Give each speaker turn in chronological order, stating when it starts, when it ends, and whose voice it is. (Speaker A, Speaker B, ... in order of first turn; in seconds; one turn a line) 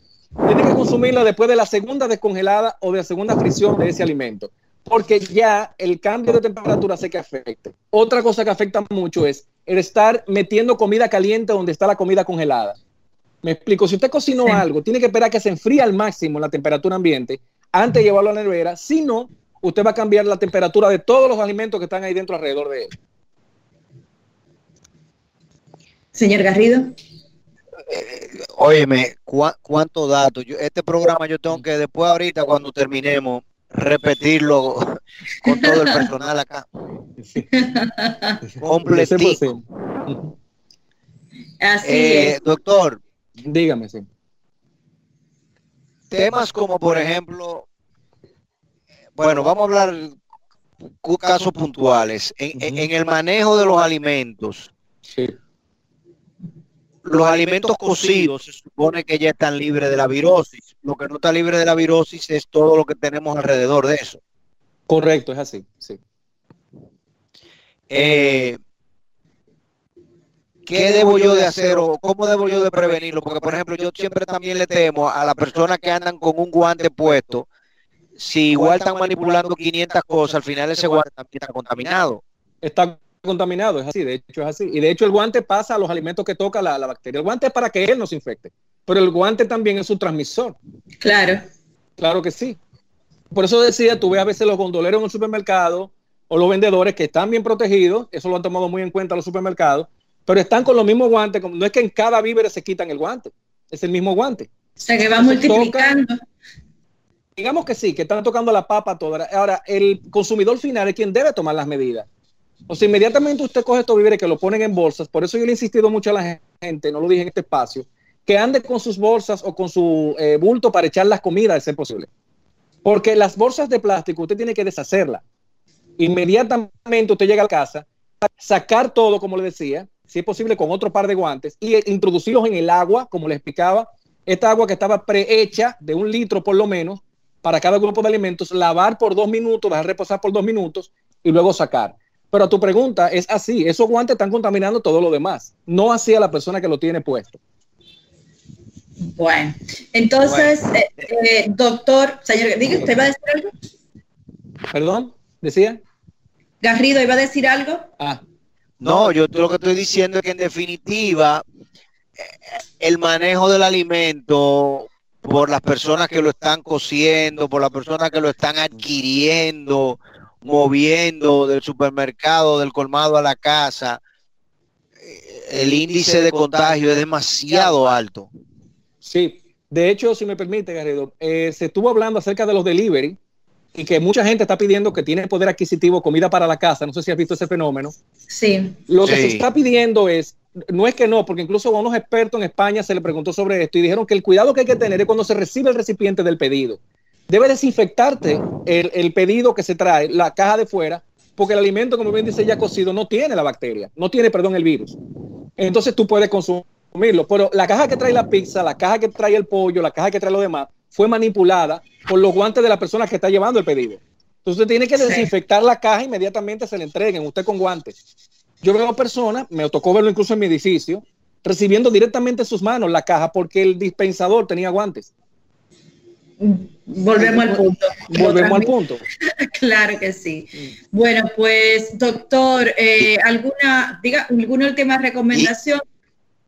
Speaker A: 0.4-12.8
Speaker A: 13.4-22.9
Speaker B: 26.1-26.9
Speaker C: 27.9-34.9
Speaker C: 35.4-36.6
Speaker B: 35.5-36.0
Speaker B: 37.5-38.4
Speaker C: 38.6-39.5
Speaker A: 38.9-40.3
Speaker B: 41.6-42.4
Speaker C: 41.8-43.0
Speaker A: 43.4-44.0
Speaker C: 46.1-47.6
Speaker C: 49.2-50.1
Speaker C: 51.0-54.7
Speaker A: 52.6-52.9
Speaker C: 57.0-64.2
Speaker A: 64.9-66.0
Speaker C: 67.9-68.6
Speaker C: 70.7-77.5
Speaker C: 78.2-82.2
Speaker A: 82.6-90.5
Speaker B: 91.0-91.4
Speaker A: 92.0-92.6
Speaker A: 93.3-104.5
Speaker B: 104.8-106.2
Speaker A: 105.2-105.9
Speaker A: 107.4-112.0
Speaker A: 112.7-122.1
Speaker A: 122.8-125.2
Speaker A: 126.0-147.4
Speaker B: 149.0-153.5
Speaker A: 154.7-155.8
Speaker B: 156.6-157.9
Speaker C: 158.8-161.4
Speaker C: 162.2-174.0
Speaker C: 175.0-178.3
Speaker A: 179.0-183.2
Speaker A: 183.7-187.9
Speaker B: 188.3-188.8
Speaker A: 188.9-204.9
Speaker C: 189.0-189.4
Speaker A: 205.6-217.9
Speaker B: 215.0-215.3
Speaker A: 218.6-225.1
Speaker B: 226.4-235.8
Speaker A: 227.2-229.0